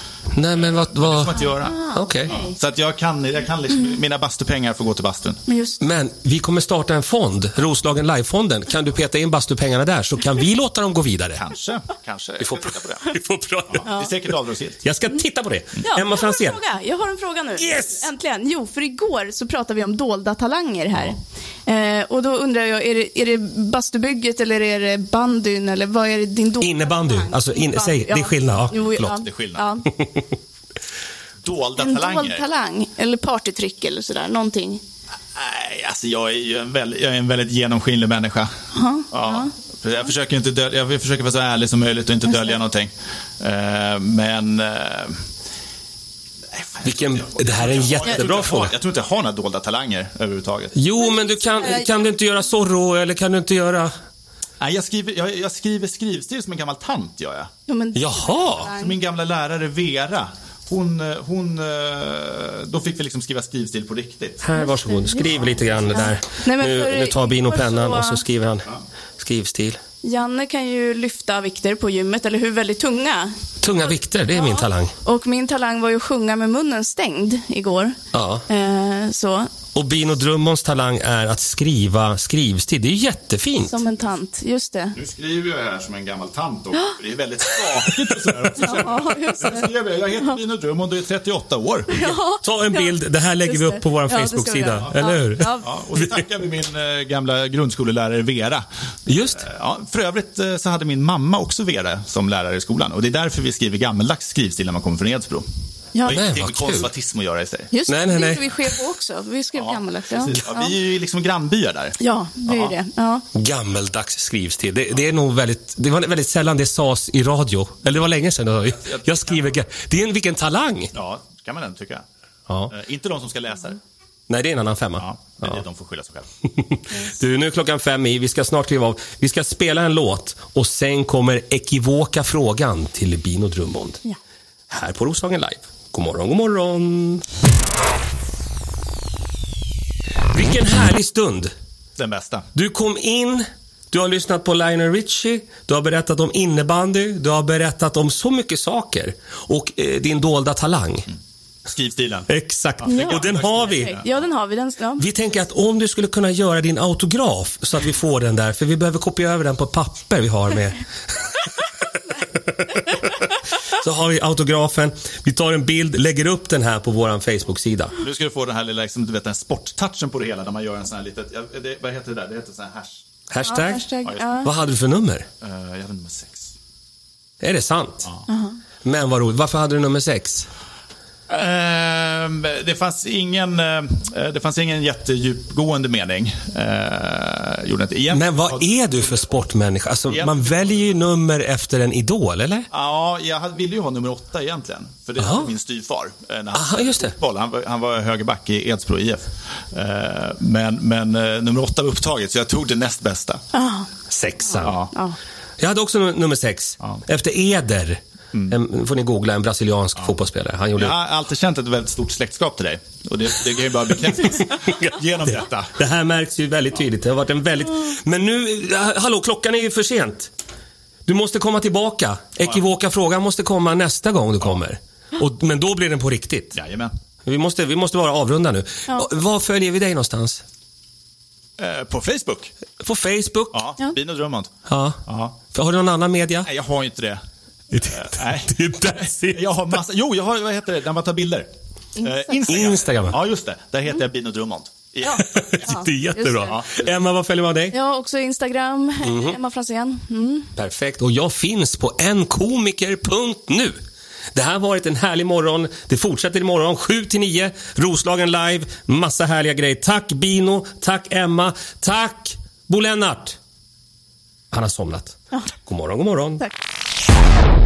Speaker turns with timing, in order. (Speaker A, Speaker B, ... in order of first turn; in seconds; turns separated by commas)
Speaker A: 0.3-2.4, Speaker B: 0.6-5.4, Speaker C: 1.7-2.5, Speaker C: 5.5-5.8, Speaker A: 5.8-11.4, Speaker B: 11.3-13.1, Speaker A: 12.4-13.8, Speaker B: 13.7-14.9, Speaker C: 13.8-14.1, Speaker A: 14.8-16.6, Speaker C: 15.8-29.9, Speaker A: 17.6-18.1, Speaker A: 26.6-29.2, Speaker B: 29.2-29.6, Speaker A: 30.0-30.2, Speaker B: 31.4-32.5, Speaker C: 31.8-34.8, Speaker B: 35.4-38.5, Speaker C: 38.8-39.5, Speaker B: 39.1-45.2, Speaker B: 46.5-50.8, Speaker A: 46.8-48.7, Speaker A: 50.8-53.9, Speaker C: 51.0-52.0, Speaker B: 54.6-57.5, Speaker C: 57.7-59.0, Speaker A: 58.0-58.7, Speaker B: 58.6-64.5, Speaker A: 64.4-69.8, Speaker C: 64.5-68.2, Speaker C: 70.0-73.3, Speaker A: 73.6-74.9, Speaker C: 74.3-78.0, Speaker A: 78.1-78.4, Speaker C: 78.5-79.5, Speaker A: 79.8-83.8, Speaker C: 83.6-85.0, Speaker B: 85.0-92.2, Speaker C: 88.6-90.4, Speaker C: 91.9-95.7, Speaker A: 92.4-96.1, Speaker B: 94.8-98.6, Speaker A: 99.1-99.5, Speaker B: 99.3-105.4, Speaker B: 106.0-107.7, Speaker A: 106.1-106.9, Speaker C: 107.7-110.7, Speaker A: 107.9-108.5, Speaker B: 109.5-112.7, Speaker C: 112.0-113.2, Speaker A: 113.3-120.9, Speaker B: 118.8-119.6, Speaker B: 120.9-122.0, Speaker B: 122.7-123.8, Speaker A: 124.3-125.6, Speaker B: 125.0-126.3, Speaker A: 126.6-134.0, Speaker A: 134.7-137.2, Speaker A: 140.3-141.5, Speaker B: 142.0-142.5, Speaker A: 142.6-151.1, Speaker B: 151.7-154.2, Speaker A: 152.3-154.0, Speaker C: 152.9-155.0, Speaker A: 155.0-160.8, Speaker A: 163.8-168.0, Speaker B: 168.0-173.0, Speaker A: 173.3-173.8, Speaker C: 173.4-174.5, Speaker B: 174.0-174.5, Speaker A: 174.4-175.3, Speaker B: 175.4-176.5, Speaker A: 177.4-178.1, Speaker C: 178.3-178.6, Speaker A: 178.8-180.5, Speaker B: 181.3-189.3, Speaker A: 188.1-192.7, Speaker B: 190.1-191.0, Speaker B: 192.7-203.4, Speaker A: 195.2-195.5, Speaker A: 196.5-197.1, Speaker C: 203.5-203.9, Speaker A: 204.1-204.8, Speaker B: 204.6-204.9, Speaker C: 204.6-205.2, Speaker A: 205.6-211.0, Speaker B: 210.8-215.8, Speaker A: 215.2-220.3, Speaker A: 221.1-226.6, Speaker B: 226.6-226.9, Speaker A: 227.3-230.4, Speaker B: 231.6-232.5, Speaker A: 232.8-233.6, Speaker B: 233.5-234.5, Speaker A: 234.7-236.5, Speaker B: 235.1-235.4, Speaker B: 236.4-237.2, Speaker A: 237.7-239.5, Speaker B: 237.8-245.8, Speaker A: 242.5-243.2, Speaker C: 245.0-246.6, Speaker A: 245.4-247.8, Speaker B: 246.5-246.9, Speaker C: 247.7-250.5, Speaker A: 249.0-249.4, Speaker A: 250.6-253.8, Speaker A: 254.3-263.4, Speaker A: 264.5-266.5